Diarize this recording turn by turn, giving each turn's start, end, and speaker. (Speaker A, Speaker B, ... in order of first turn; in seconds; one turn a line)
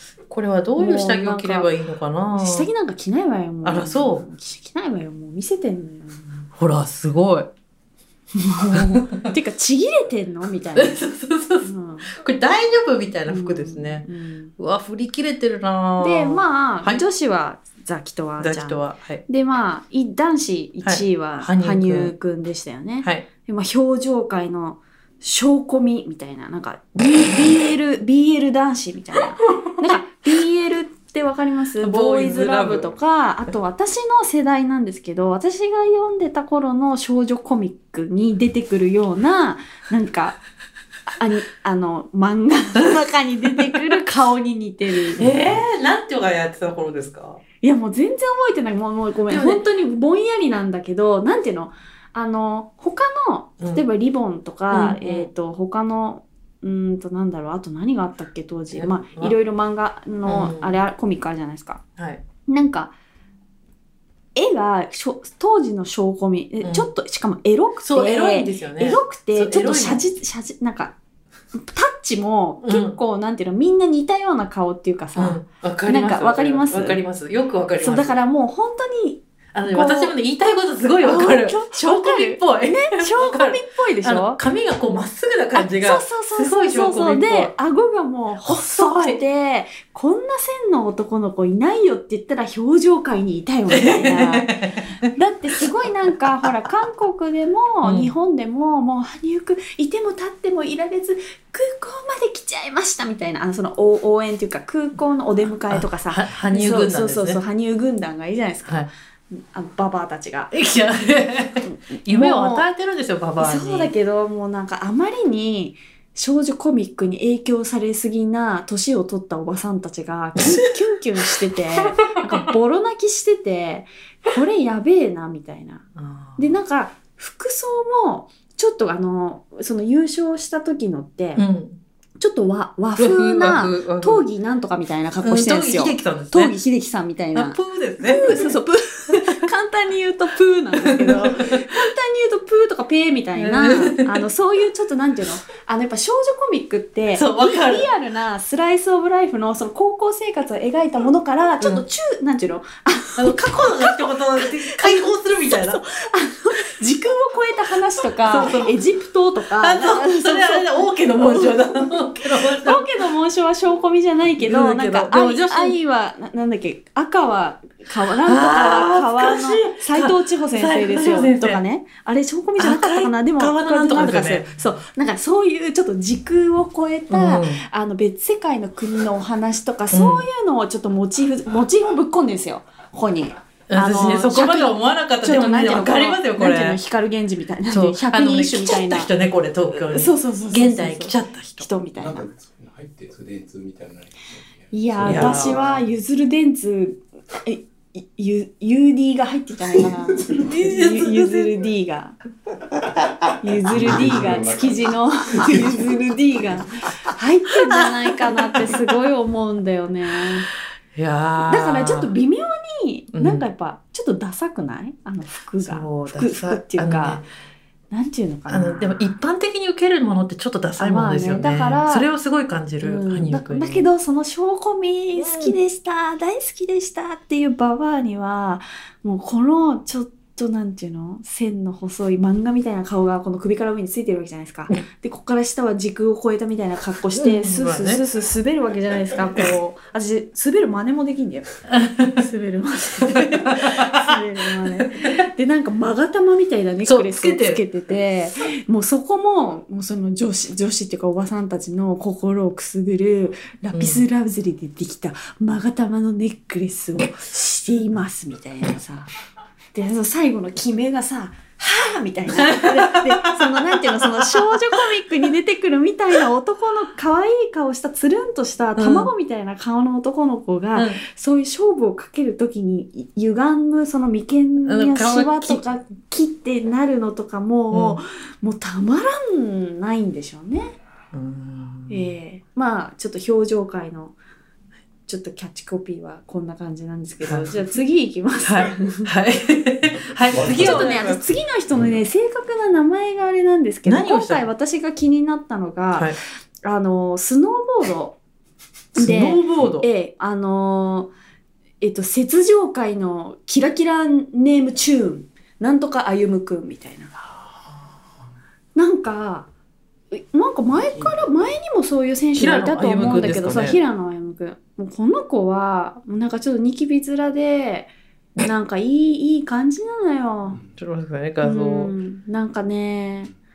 Speaker A: 0.3-2.7
Speaker B: 0.8-1.7
Speaker B: 2.3-6.5
Speaker A: 3.6-4.2
Speaker A: 6.5-7.5
Speaker B: 8.3-11.1
Speaker A: 8.7-9.3
Speaker A: 10.8-14.1
Speaker B: 11.6-12.1
Speaker B: 13.3-14.5
Speaker A: 14.6-17.0
Speaker B: 16.0-40.4
Speaker A: 18.4-19.2
Speaker A: 20.8-22.1
Speaker A: 23.0-23.3
Speaker A: 29.6-29.9
Speaker A: 31.8-32.9
Speaker B: 41.1-45.2
Speaker A: 45.1-47.4
Speaker B: 47.6-61.8
Speaker A: 49.3-49.6
Speaker A: 54.7-55.3
Speaker A: 58.7-59.3
Speaker A: 60.2-60.8
Speaker A: 62.0-62.2
Speaker B: 62.5-62.9
Speaker B: 64.3-70.9
Speaker A: 66.6-66.9
Speaker A: 67.8-70.0
Speaker B: 71.5-77.0
Speaker A: 72.6-73.0
Speaker A: 75.2-78.2
Speaker B: 77.8-80.1
Speaker A: 79.5-87.5
Speaker B: 81.0-84.4
Speaker B: 85.5-94.5
Speaker A: 88.4-89.2
Speaker A: 93.7-95.0
Speaker B: 95.1-110.6
Speaker A: 97.8-98.1
Speaker A: 105.7-107.4
Speaker A: 110.5-113.9
Speaker B: 111.6-112.6
Speaker B: 113.4-125.8
Speaker A: 121.9-122.5
Speaker A: 126.0-126.5
Speaker B: 126.4-131.4
Speaker A: 131.3-131.8
Speaker B: 132.2-189.1
Speaker A: 133.0-134.2
Speaker A: 135.2-136.5
Speaker A: 137.3-138.5
Speaker A: 140.8-141.6
Speaker A: 143.3-144.2
Speaker A: 147.1-147.9
Speaker A: 153.2-155.8
Speaker A: 158.1-158.7
Speaker A: 159.6-162.9
Speaker A: 164.4-165.8
Speaker A: 168.2-171.6
Speaker A: 172.6-174.5
Speaker A: 177.1-177.6
Speaker A: 179.9-180.3
Speaker A: 183.7-186.8
Speaker A: 187.7-191.7
Speaker B: 189.7-192.3
Speaker C: 192.0-195.8
Speaker B: 194.7-202.2
Speaker A: 195.0-195.7
Speaker A: 200.4-201.4
Speaker B: 203.4-210.5
Speaker C: 203.7-204.8
Speaker C: 205.4-205.8
Speaker A: 210.9-212.1
Speaker B: 211.4-217.2
Speaker A: 213.1-213.4
Speaker A: 215.6-217.2
Speaker B: 217.9-219.1
Speaker A: 218.5-223.9
Speaker B: 220.8-222.1
Speaker B: 222.8-241.5
Speaker A: 225.1-225.5
Speaker A: 237.2-238.0
Speaker A: 241.7-242.2
Speaker B: 242.1-259.1
Speaker A: 243.0-244.2
Speaker A: 244.8-245.2
Speaker A: 246.8-247.6
Speaker A: 253.7-254.0
Speaker B: 259.7-280.8
Speaker A: 262.5-264.4
Speaker A: 268.8-269.1
Speaker A: 270.7-271.0
Speaker A: 274.6-275.6
Speaker A: 277.7-278.0
Speaker A: 281.1-282.1
Speaker B: 281.9-284.2
Speaker B: 285.1-289.1
Speaker A: 287.2-287.5
Speaker A: 288.4-291.2
Speaker B: 290.4-298.2
Speaker A: 293.8-294.4
Speaker A: 295.9-296.2
Speaker B: 298.9-301.1
Speaker A: 298.9-299.9
Speaker B: 301.8-307.4
Speaker B: 308.7-309.5
Speaker B: 310.1-320.6
Speaker A: 312.4-313.8
Speaker A: 320.8-321.9
Speaker B: 321.4-323.3